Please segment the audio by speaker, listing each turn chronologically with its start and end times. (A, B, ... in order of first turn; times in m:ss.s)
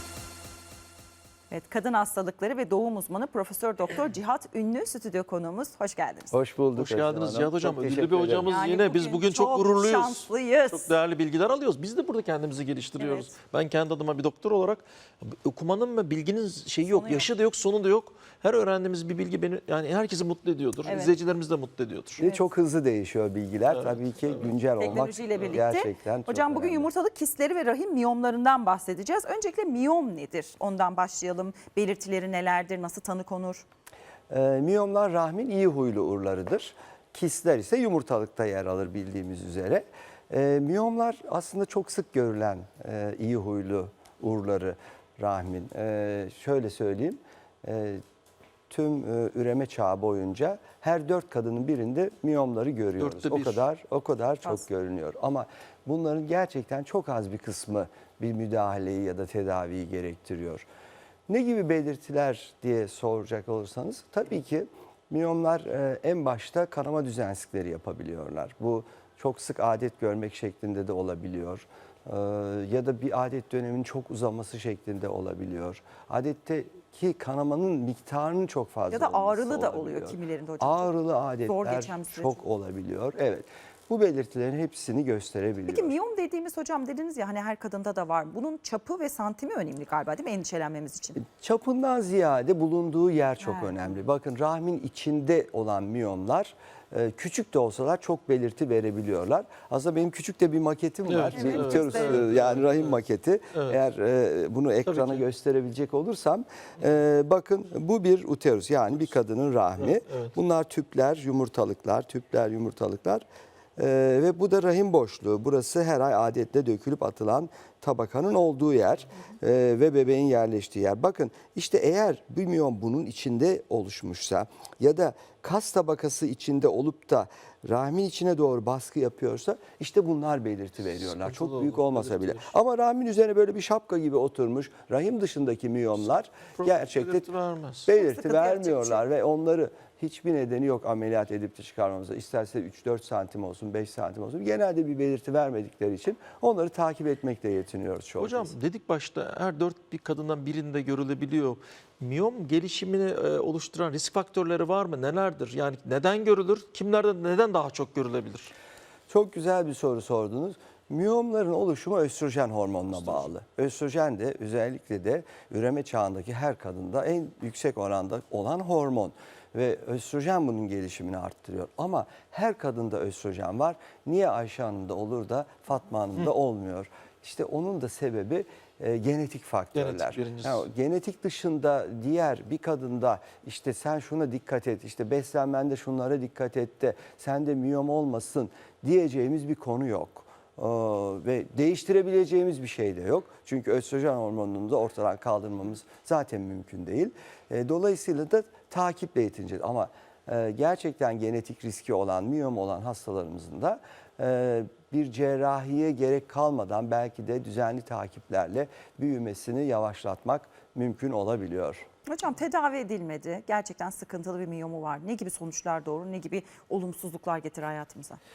0:01.5-0:06.3 A
0:06.3-0:08.5 B
0:06.8-0:22.2 C
0:08.4-0:10.9 A
0:13.0-0:13.3 A
0:16.9-0:17.3 A
0:20.8-0:21.2 A
0:22.2-0:26.9 B
0:23.7-0:24.5 C
0:24.8-0:33.6 A
0:34.3-0:48.0 B
0:48.7-1:00.6 B
0:53.0-0:53.6 C
1:01.3-1:25.9 B
1:18.9-1:20.9 A
1:21.4-1:22.4 A
1:25.7-1:31.2 A
1:31.2-1:53.2 B
1:33.4-1:33.9 A
1:41.0-1:43.0 C
1:41.3-1:42.2 A
1:43.5-1:43.8 C
1:44.9-1:45.2 C
1:49.8-1:50.3 C
1:53.8-2:17.3 B
2:10.9-2:12.6 C
2:16.0-2:17.9 C
2:17.9-2:28.5 B
2:17.9-2:19.0 A
2:28.2-2:38.5 C
2:39.1-3:31.8 B
2:42.9-2:43.3 C
2:59.8-3:00.6 C
3:32.1-3:38.2 A